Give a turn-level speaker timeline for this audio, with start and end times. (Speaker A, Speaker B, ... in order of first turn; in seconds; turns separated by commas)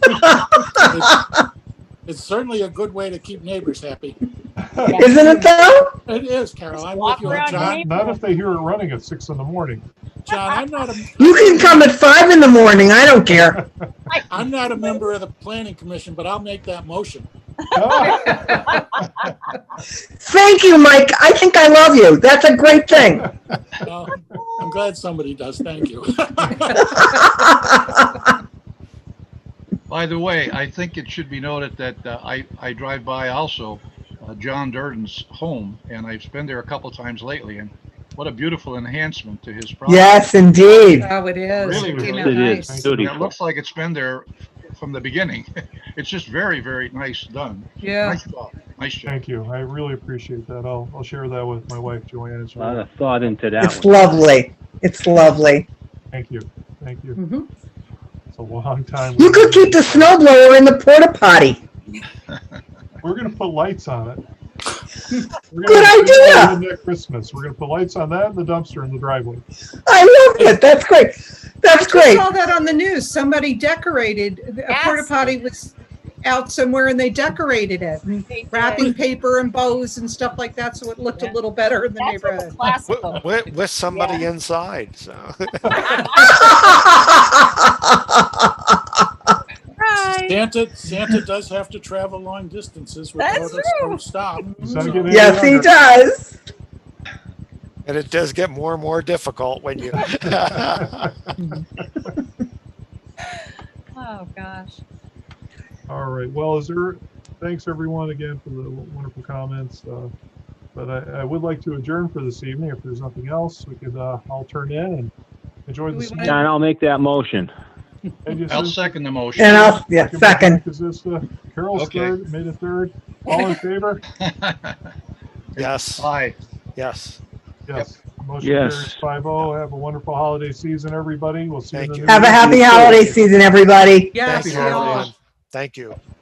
Speaker A: 0.2-1.3, Speaker B: 0.8-1.2, Speaker B: 2.0-4.2, Speaker C: 4.6-5.4, Speaker D: 4.9-5.2, Speaker A: 4.9-5.9, Speaker B: 6.1-7.8, Speaker D: 6.7-8.2, Speaker C: 7.2-9.8, Speaker B: 10.2-11.9, Speaker D: 10.3-10.8, Speaker A: 11.2-13.6, Speaker C: 13.3-13.9, Speaker B: 14.3-17.3, Speaker C: 17.7-19.0, Speaker D: 17.9-18.8, Speaker A: 20.2-23.3, Speaker B: 23.8-26.9, Speaker A: 27.0-28.0, Speaker E: 29.9-40.8, Speaker A: 39.9-41.1, Speaker F: 40.9-42.8, Speaker E: 41.5-49.1, Speaker C: 41.7-43.0, Speaker G: 42.1-43.3, Speaker F: 47.8-48.2, Speaker C: 49.0-52.8, Speaker G: 52.6-54.3, Speaker A: 53.6-55.6, Speaker C: 56.1-57.2, Speaker F: 57.2-57.5, Speaker C: 58.3-60.2, Speaker A: 59.2-61.6, Speaker C: 63.0-64.2, Speaker C: 65.5-69.4, Speaker A: 65.6-66.6, Speaker A: 69.8-72.3, Speaker F: 71.9-82.5, Speaker D: 74.7-75.3, Speaker D: 78.3-78.9, Speaker D: 81.9-84.3, Speaker H: 82.9-85.7, Speaker D: 85.7-86.8, Speaker A: 86.2-87.1, Speaker D: 89.8-90.4, Speaker B: 90.1-95.2, Speaker D: 93.2-94.0, Speaker C: 94.6-95.8, Speaker A: 95.1-96.4, Speaker H: 97.8-101.3, Speaker D: 103.9-104.8, Speaker C: 105.9-110.1, Speaker C: 110.7-115.1, Speaker C: 115.7-116.4, Speaker F: 115.9-116.4, Speaker G: 116.2-117.5, Speaker C: 118.2-124.0, Speaker E: 118.5-119.8, Speaker A: 119.4-120.6, Speaker E: 121.7-122.1, Speaker E: 124.2-124.8, Speaker E: 125.5-126.4, Speaker H: 125.6-126.1, Speaker H: 126.8-127.2, Speaker C: 127.7-133.2, Speaker G: 128.4-129.0, Speaker H: 131.7-132.4, Speaker A: 132.1-134.2, Speaker F: 134.1-135.1, Speaker H: 134.2-136.0, Speaker E: 134.3-135.1